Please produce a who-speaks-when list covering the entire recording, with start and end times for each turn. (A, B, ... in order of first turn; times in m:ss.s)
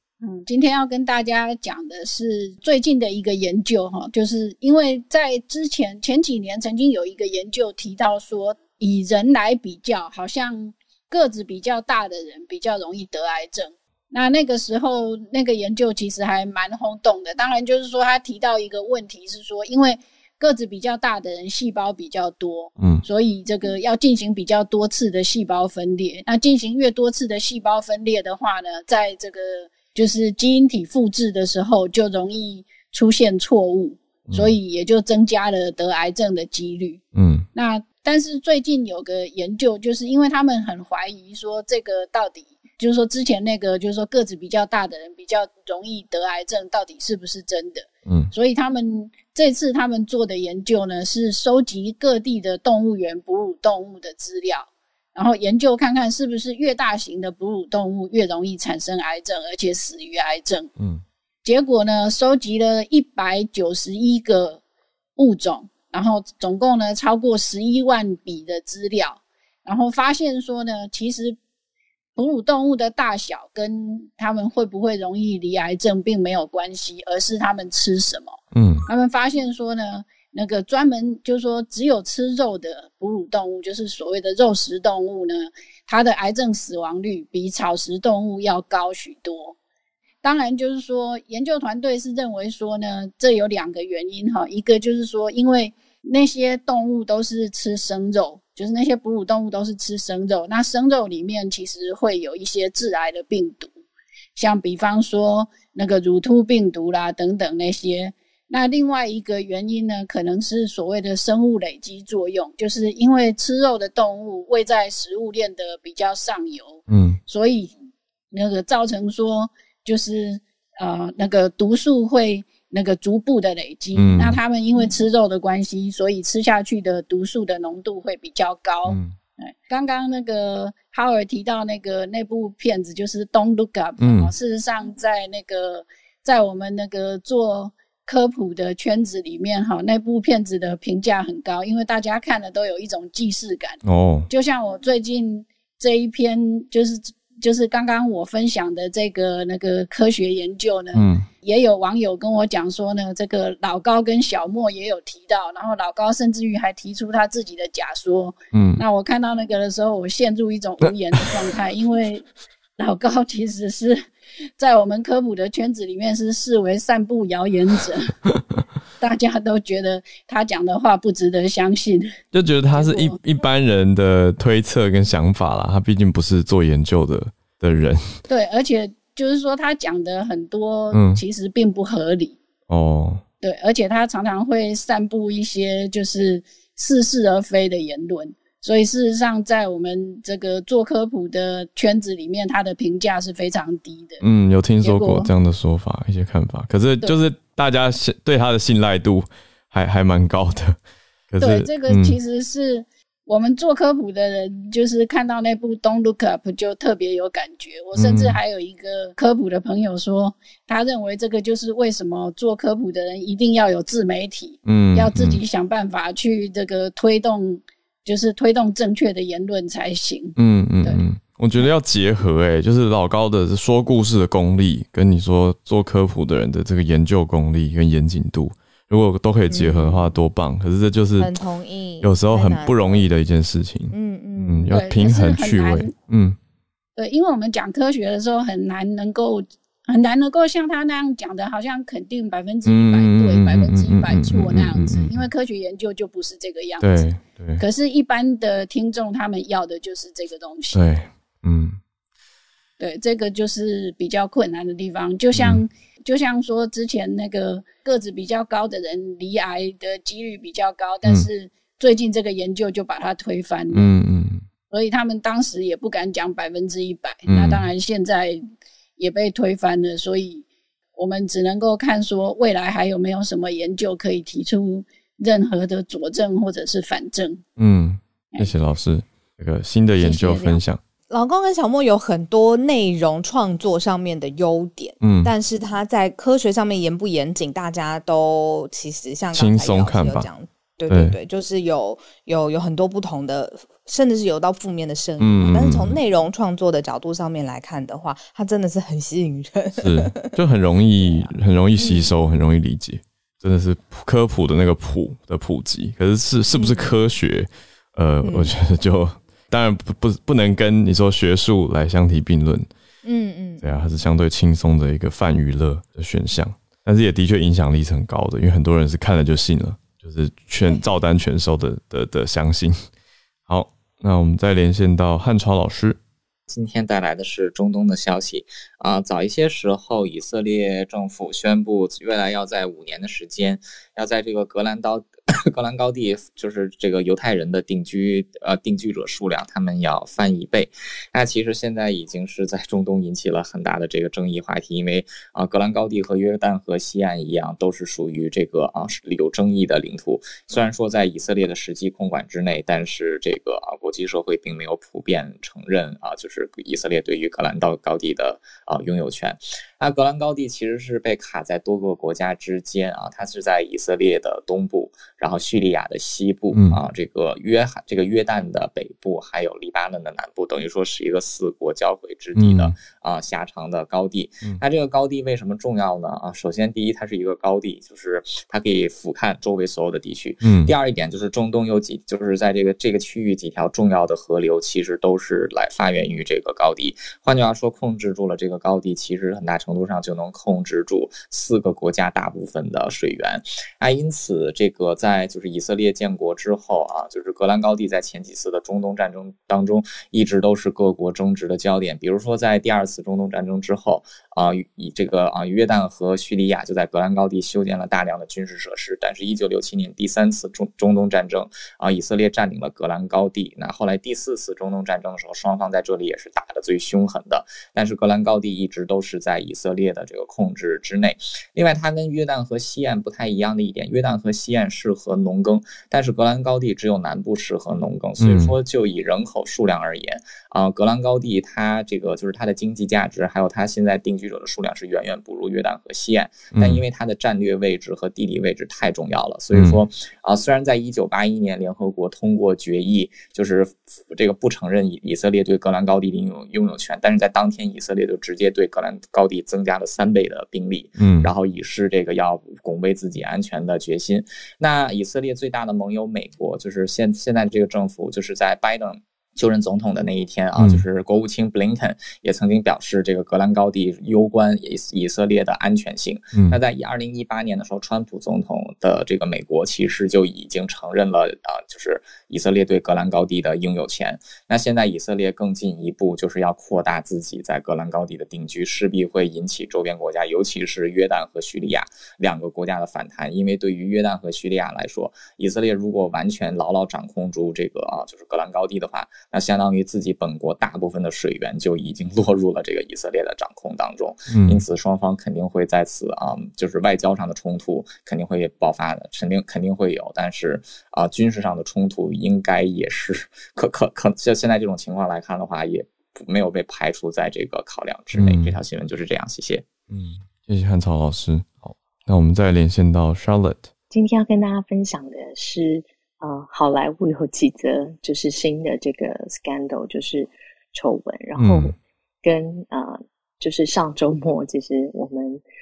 0:00.2-0:37.0 A
0:34.3-0:34.6 B
0:37.1-0:37.4 B
0:37.5-1:00.7 A
1:00.8-1:01.0 B
1:01.4-1:04.6 A
1:05.2-1:11.4 A
1:12.2-1:18.4 A
1:18.5-1:18.8 B
1:18.9-1:29.5 A
1:30.2-1:43.7 A
1:44.3-1:57.7 A
1:56.9-1:57.2 B
1:58.3-2:23.8 A
2:03.9-2:04.4 B
2:08.8-2:09.2 B
2:14.0-2:14.3 B
2:23.8-2:24.3 B
2:24.3-2:42.2 A
2:30.9-2:31.2 B
2:38.5-2:38.8 B
2:42.8-2:44.0 A
2:44.6-2:48.1 A
2:49.0-2:52.2 A
2:52.3-2:58.2 B
2:52.7-2:53.2 A
2:58.3-3:02.4 A
3:00.9-3:01.2 B
3:02.7-3:03.2 B
3:03.4-3:14.2 A
3:14.2-3:20.8 B
3:14.8-3:15.3 A
3:21.3-3:22.2 B
3:21.4-3:41.0 A
3:27.9-3:28.4 B
3:34.6-3:35.4 B
3:40.4-3:51.3 B
3:49.5-3:50.2 C
3:51.2-3:53.1 C
3:52.0-3:56.4 B
3:53.9-3:54.8 C
3:54.7-3:55.9 A
3:57.0-4:07.1 A
4:02.6-4:05.3 B
4:06.8-4:07.6 B
4:07.6-4:10.8 A
4:10.7-4:11.8 B
4:12.8-4:23.9 A
4:15.3-4:15.6 B
4:23.7-4:24.4 B
4:24.7-4:28.4 A
4:27.2-4:27.6 B
4:29.0-4:30.4 A
4:31.0-4:37.4 A
4:37.6-4:40.8 B
4:40.0-4:40.6 A
4:41.1-5:00.3 C
4:45.0-4:45.3 B
4:49.3-4:50.3 B
4:50.9-4:51.2 B
4:55.2-4:56.0 B
4:59.8-5:12.7 B
5:01.8-5:02.1 C
5:06.5-5:06.9 C
5:08.2-5:08.5 C
5:13.0-5:13.8 C
5:13.6-5:22.8 B
5:23.5-5:26.0 B
5:26.5-8:29.6 D
6:06.5-6:06.8 B
6:12.3-6:12.7 B
6:20.4-6:20.7 B
7:08.2-7:08.5 B
7:16.5-7:16.8 B
7:19.5-7:19.8 B
7:31.0-7:31.3 B
7:40.6-7:40.8 B
7:46.3-7:46.6 B
8:14.3-8:14.6 B
8:28.1-8:28.6 B
8:29.9-8:33.7 B
8:33.9-8:45.4 E
8:41.4-8:41.7 B